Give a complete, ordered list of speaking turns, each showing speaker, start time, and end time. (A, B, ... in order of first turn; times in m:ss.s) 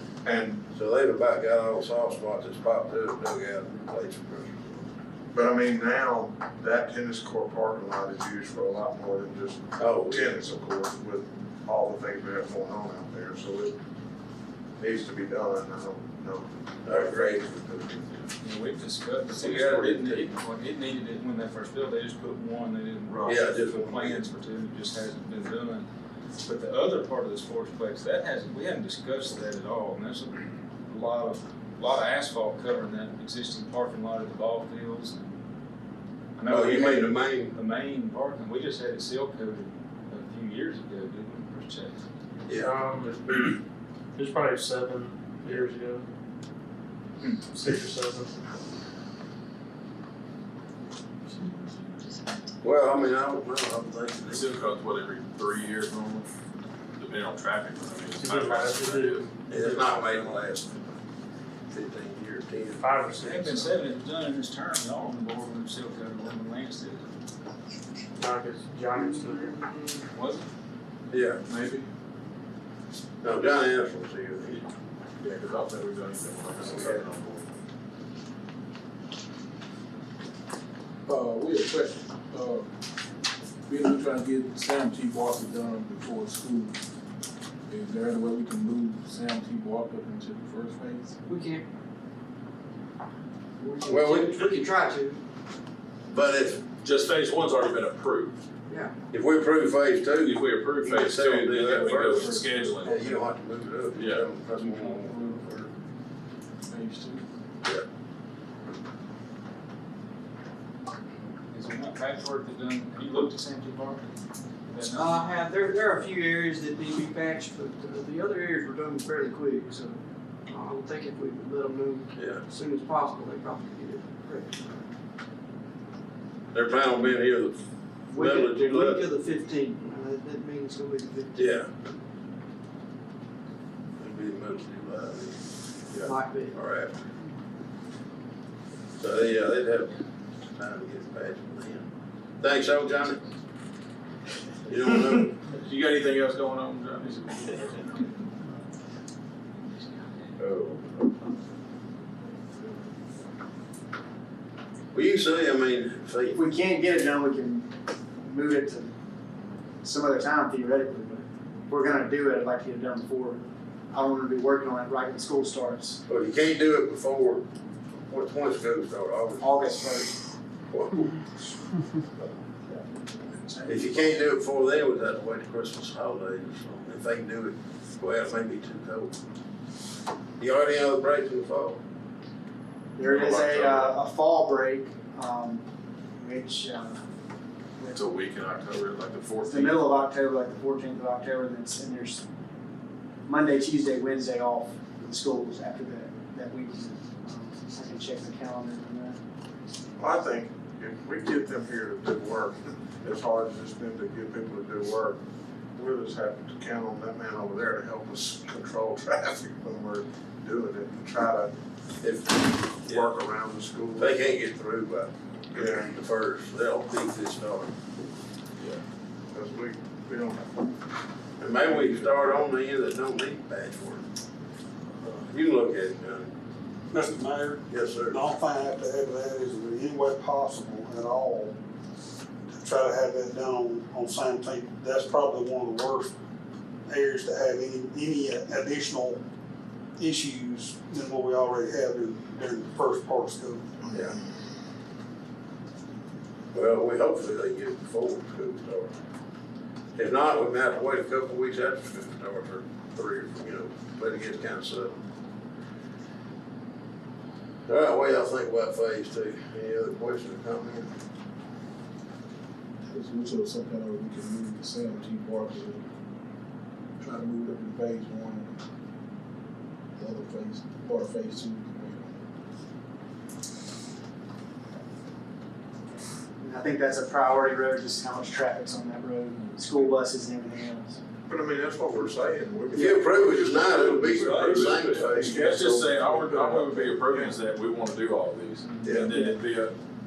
0:00.3-0:00.6 A
0:00.7-0:04.9 B
0:05.3-0:09.6 A
0:09.8-0:10.4 B
0:10.1-0:13.7 A
0:14.8-0:18.0 A
0:16.8-0:17.5 B
0:18.4-0:25.9 C
0:19.3-0:20.3 B
0:23.2-0:24.2 B
0:26.4-0:35.4 C
0:36.4-0:42.0 C
0:36.5-0:37.6 B
0:42.5-0:43.5 B
0:42.5-0:43.6 D
0:44.2-0:46.1 D
0:47.5-0:48.5 D
0:52.6-0:54.5 B
0:54.3-0:56.3 E
0:57.0-0:59.3 E
0:58.2-1:00.4 D
0:59.5-1:01.0 B
1:01.7-1:03.1 B
1:02.8-1:03.9 D
1:03.2-1:07.1 C
1:08.2-1:09.6 D
1:08.9-1:09.6 F
1:10.1-1:10.5 C
1:11.1-1:11.4 B
1:13.2-1:14.6 B
1:15.2-1:17.5 E
1:16.6-1:17.0 B
1:21.1-1:22.7 G
1:23.7-1:26.8 G
1:27.7-1:31.2 G
1:31.3-1:31.6 F
1:33.6-1:35.2 F
1:33.8-1:34.7 B
1:36.1-1:36.6 B
1:36.8-1:38.4 E
1:38.7-1:38.9 F
1:39.1-1:45.7 B
1:40.2-1:43.0 E
1:44.0-1:44.3 E
1:44.6-1:45.4 G
1:46.7-1:47.2 G
1:51.5-1:54.1 C
1:54.7-1:55.4 C
1:54.8-2:04.7 F
2:02.2-2:02.4 B
2:06.5-2:07.6 B
2:08.1-2:11.6 F
2:08.1-2:09.1 B
2:11.4-2:11.7 B
2:14.0-2:15.4 B
2:15.9-2:17.0 B
2:16.0-2:16.6 F
2:19.0-2:21.9 B
2:22.4-2:23.2 B
2:24.7-2:25.4 B
2:25.5-2:28.1 E
2:29.6-2:30.3 C
2:30.4-2:31.2 B
2:34.9-2:36.4 B
2:36.3-2:38.9 H
2:39.8-2:46.0 H
2:46.1-2:47.4 B
2:48.1-2:49.5 B
2:49.4-2:50.2 H
2:50.7-2:51.1 B
2:53.6-2:59.2 B
3:00.4-3:01.8 B
3:03.0-3:05.6 H
3:03.0-3:03.9 E
3:06.2-3:07.0 H
3:07.9-3:09.8 E
3:09.4-3:12.2 H
3:13.3-3:19.2 H
3:20.0-3:25.2 A
3:25.8-3:31.5 A
3:32.0-3:33.2 B
3:32.9-3:34.4 A
3:34.0-3:37.7 B
3:39.3-3:40.4 A
3:41.4-3:44.1 B
3:45.0-3:46.3 B
3:46.9-3:51.6 I
3:47.7-3:48.2 B
3:52.5-3:56.1 I
3:56.9-3:59.2 I
4:00.0-4:03.9 I
4:06.5-4:08.9 B
4:10.0-4:15.0 B
4:17.7-4:20.9 B
4:22.9-4:25.9 G
4:27.0-4:28.6 G
4:30.0-4:32.2 G
4:36.4-4:41.0 H
4:41.3-4:44.6 A
4:42.8-4:45.4 B
4:43.8-4:49.7 E
4:45.2-4:47.2 A
4:48.8-4:49.3 H